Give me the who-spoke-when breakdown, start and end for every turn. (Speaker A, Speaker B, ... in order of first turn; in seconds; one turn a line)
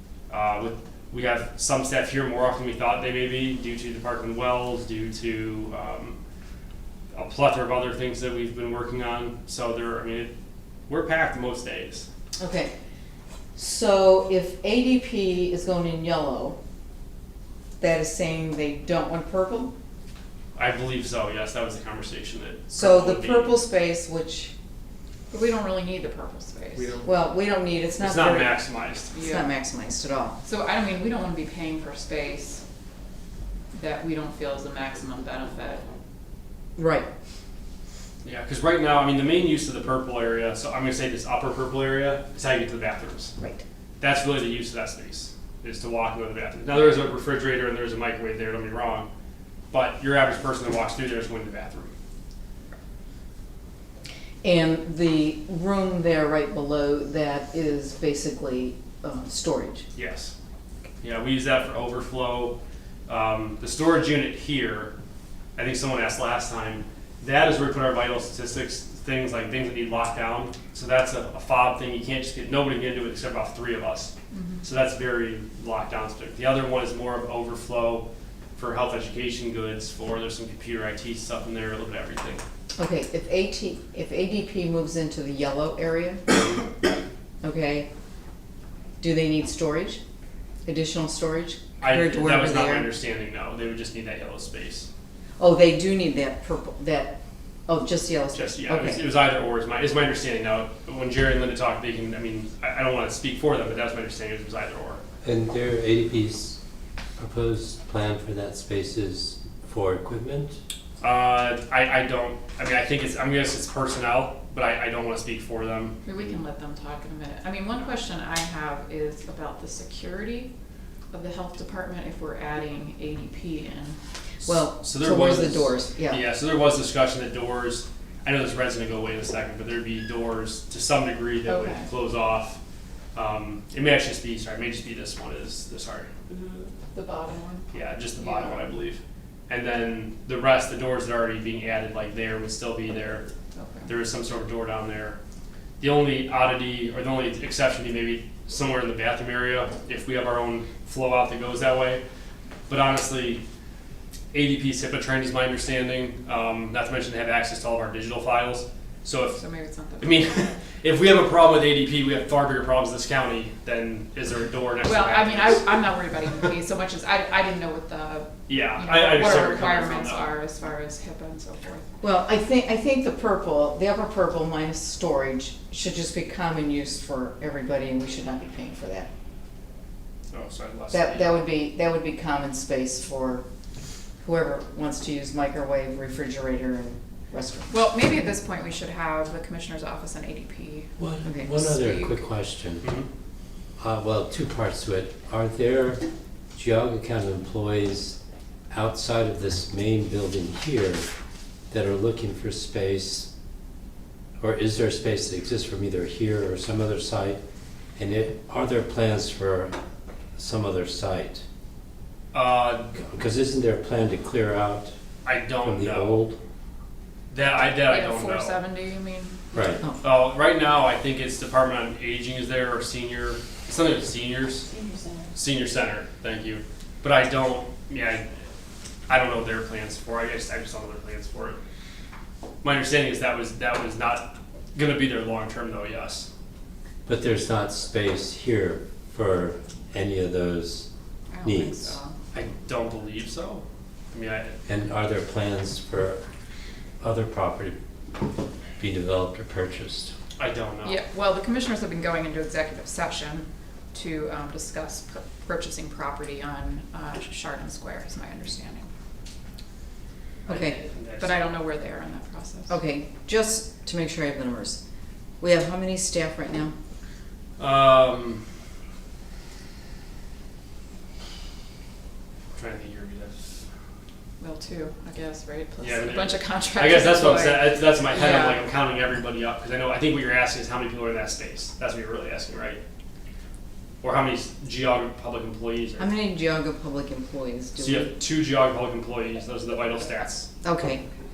Speaker A: 0.3-6.2
Speaker A: 7.1-10.3
Speaker A: 10.9-12.1
Speaker B: 12.4-12.7
Speaker B: 13.6-16.6
Speaker B: 17.8-19.7
Speaker A: 20.6-23.6
Speaker B: 22.7-24.5
Speaker C: 25.3-26.9
Speaker A: 26.7-27.1
Speaker B: 27.0-30.4
Speaker A: 28.0-29.1
Speaker C: 29.1-29.5
Speaker C: 30.4-32.6
Speaker C: 33.7-35.9
Speaker B: 36.8-37.1
Speaker A: 38.2-43.3
Speaker A: 44.0-49.1
Speaker A: 49.7-51.9
Speaker B: 54.4-59.9
Speaker A: 59.9-60.3
Speaker A: 61.0-64.9
Speaker A: 65.5-74.1
Speaker C: 74.3-74.6
Speaker A: 74.6-82.4
Speaker B: 82.8-86.2
Speaker B: 87.4-87.9
Speaker B: 89.0-90.0
Speaker B: 90.6-92.9
Speaker A: 91.8-94.9
Speaker B: 95.4-97.1
Speaker B: 97.7-99.0
Speaker A: 98.3-105.0
Speaker D: 105.2-106.6
Speaker D: 107.2-110.6
Speaker A: 111.0-116.0
Speaker C: 116.0-120.5
Speaker C: 121.1-124.0
Speaker A: 124.4-132.6
Speaker B: 124.4-126.2
Speaker C: 131.4-131.9
Speaker A: 133.1-136.1
Speaker C: 136.3-138.7
Speaker A: 137.7-143.2
Speaker C: 143.5-143.9
Speaker A: 143.9-145.2
Speaker A: 145.8-152.0
Speaker A: 152.7-153.4
Speaker A: 154.3-159.4
Speaker C: 159.3-160.2
Speaker A: 160.0-165.7
Speaker C: 164.8-171.9
Speaker A: 168.5-170.3
Speaker B: 172.0-179.1
Speaker A: 180.3-181.4
Speaker B: 180.9-183.4
Speaker B: 184.2-187.8
Speaker C: 187.7-190.9
Speaker D: 191.0-192.9
Speaker B: 191.2-191.6
Speaker C: 191.4-192.3
Speaker A: 192.8-193.1
Speaker D: 193.8-198.2
Speaker D: 198.7-201.1
Speaker D: 201.7-203.3
Speaker D: 204.4-207.4
Speaker D: 207.9-209.8
Speaker D: 210.4-211.4
Speaker A: 212.3-212.9
Speaker D: 212.9-214.9
Speaker A: 215.2-216.2
Speaker D: 215.6-216.4
Speaker A: 217.3-218.6
Speaker C: 217.8-219.8
Speaker D: 219.5-219.8
Speaker A: 220.0-224.7
Speaker C: 224.7-225.2
Speaker A: 225.3-228.2
Speaker A: 229.1-231.6
Speaker A: 232.6-236.3
Speaker D: 237.1-240.9
Speaker C: 241.3-242.2
Speaker D: 241.4-242.0
Speaker A: 242.3-244.5
Speaker D: 244.7-246.2
Speaker D: 247.0-247.8
Speaker D: 248.8-250.1
Speaker A: 250.4-251.0
Speaker C: 250.8-258.9
Speaker B: 260.5-260.8
Speaker A: 260.5-261.6
Speaker C: 261.2-262.8
Speaker B: 262.7-264.8
Speaker B: 265.4-266.7
Speaker A: 267.6-268.4
Speaker A: 272.6-273.6
Speaker C: 274.4-278.7
Speaker A: 275.8-282.8
Speaker A: 284.0-286.1
Speaker B: 286.0-288.1
Speaker A: 287.8-290.5
Speaker B: 290.6-291.0